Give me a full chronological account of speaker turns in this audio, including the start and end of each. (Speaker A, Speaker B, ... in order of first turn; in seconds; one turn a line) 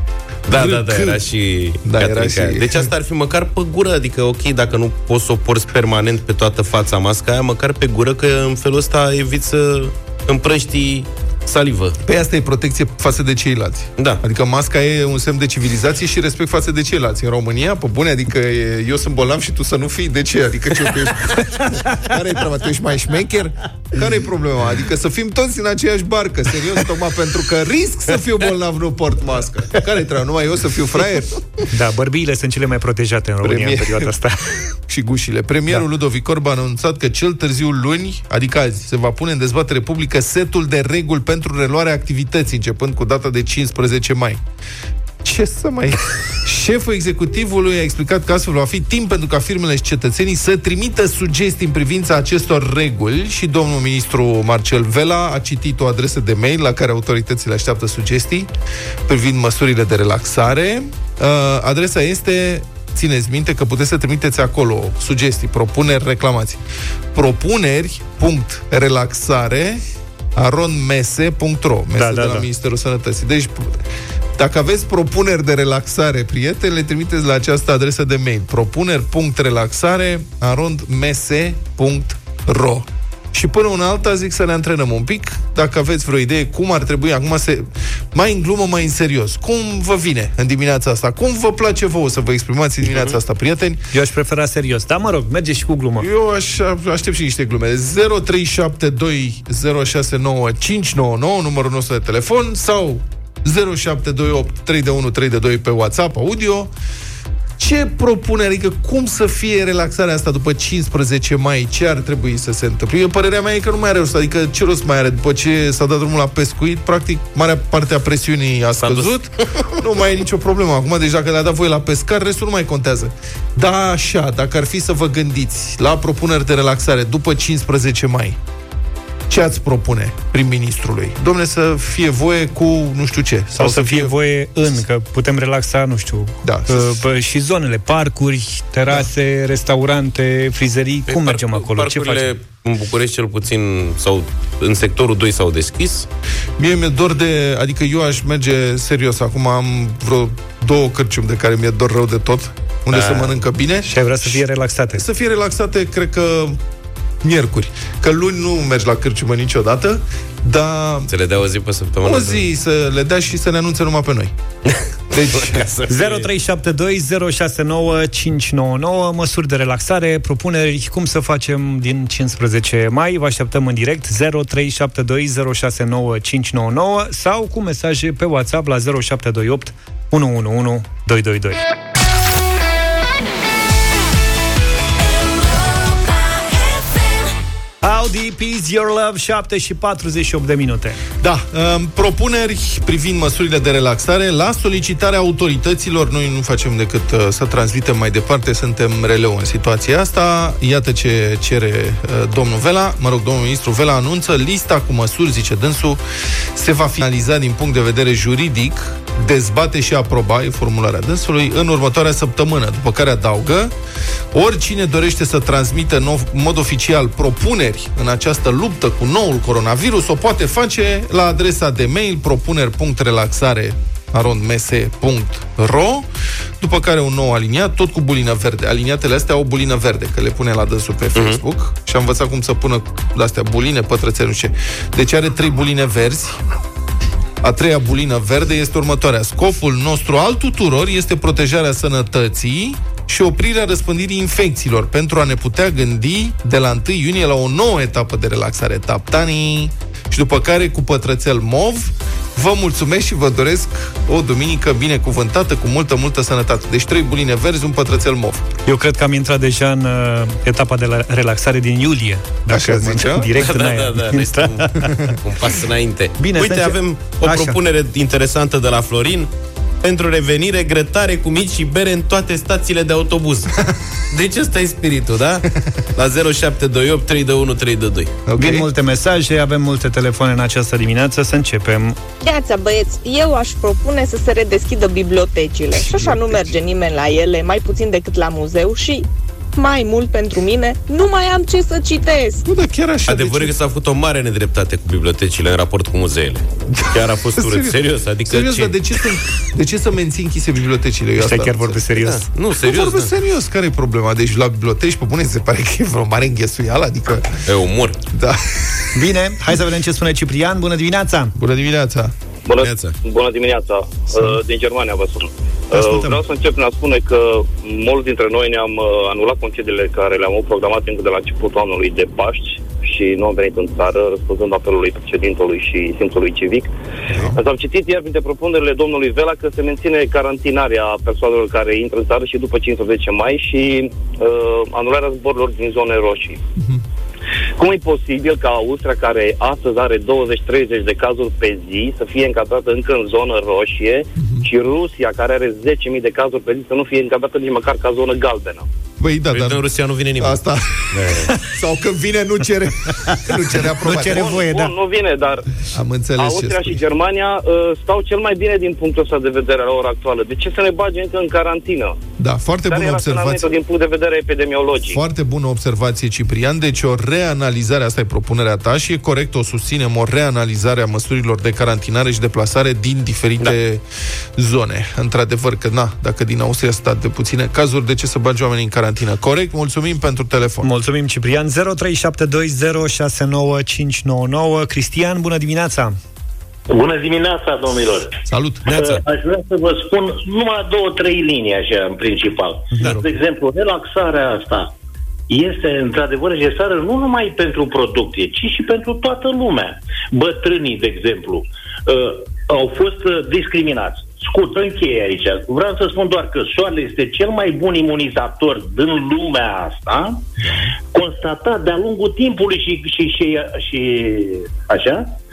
Speaker A: 0.5-1.2
Speaker B: 0.5-12.0
Speaker A: 1.9-2.9
Speaker A: 12.0-31.6
Speaker B: 14.0-14.2
Speaker C: 31.7-34.5
Speaker A: 33.4-34.1
Speaker A: 34.8-44.4
Speaker A: 45.2-58.5
Speaker A: 59.1-66.6
Speaker A: 67.1-69.8
Speaker A: 70.4-73.8
Speaker C: 72.0-72.5
Speaker A: 74.4-93.8
Speaker B: 92.9-93.2
Speaker C: 93.9-96.1
Speaker A: 96.0-106.7
Speaker A: 107.6-128.4
Speaker B: 118.8-119.7
Speaker A: 129.3-134.1
Speaker C: 133.6-142.3
Speaker A: 136.4-137.0
Speaker B: 141.1-146.1
Speaker A: 146.6-156.6
Speaker B: 152.9-153.4
Speaker C: 153.9-155.0
Speaker A: 157.2-161.1
Speaker B: 161.1-162.5
Speaker A: 162.0-164.3
Speaker A: 165.1-165.7
Speaker B: 165.3-166.3
Speaker C: 165.9-181.6
Speaker C: 187.8-191.0
Speaker A: 191.2-206.0
Speaker A: 206.6-213.7
Speaker A: 214.3-226.1
Speaker A: 226.6-236.4
Speaker B: 231.2-231.4
Speaker A: 237.4-258.5
Speaker C: 258.7-264.9
Speaker A: 262.5-263.3
Speaker B: 263.4-269.3
Speaker A: 264.8-265.2
Speaker C: 266.2-267.6
Speaker B: 269.8-273.6
Speaker B: 274.1-275.4
Speaker B: 276.0-278.1
Speaker A: 278.3-278.7
Speaker C: 278.4-282.0
Speaker D: 282.2-292.4
Speaker A: 285.7-286.5
Speaker A: 292.4-293.5
Speaker B: 293.1-299.1
Speaker A: 296.7-301.8
Speaker C: 301.2-302.3
Speaker B: 302.0-303.1
Speaker A: 302.6-307.4
Speaker B: 307.5-308.0
Speaker A: 308.1-308.8
Speaker C: 308.9-311.3
Speaker A: 311.4-312.1
Speaker E: 312.5-326.7
Speaker B: 312.6-313.0
Speaker C: 315.7-316.2
Speaker E: 327.3-336.4
Speaker E: 337.6-348.7
Speaker A: 349.0-349.7
Speaker B: 349.3-350.4
Speaker A: 350.2-354.4
Speaker B: 350.9-351.3
Speaker C: 353.8-354.7
Speaker E: 354.0-355.4
Speaker A: 355.7-356.8
Speaker E: 356.2-362.0
Speaker A: 362.2-363.5
Speaker E: 362.7-365.0
Speaker A: 364.9-373.8
Speaker A: 374.4-380.7
Speaker C: 380.6-386.0
Speaker F: 386.7-388.2
Speaker A: 388.3-388.7
Speaker B: 388.7-389.0
Speaker F: 388.7-394.7
Speaker C: 392.7-393.0
Speaker F: 395.3-410.2
Speaker F: 410.9-415.2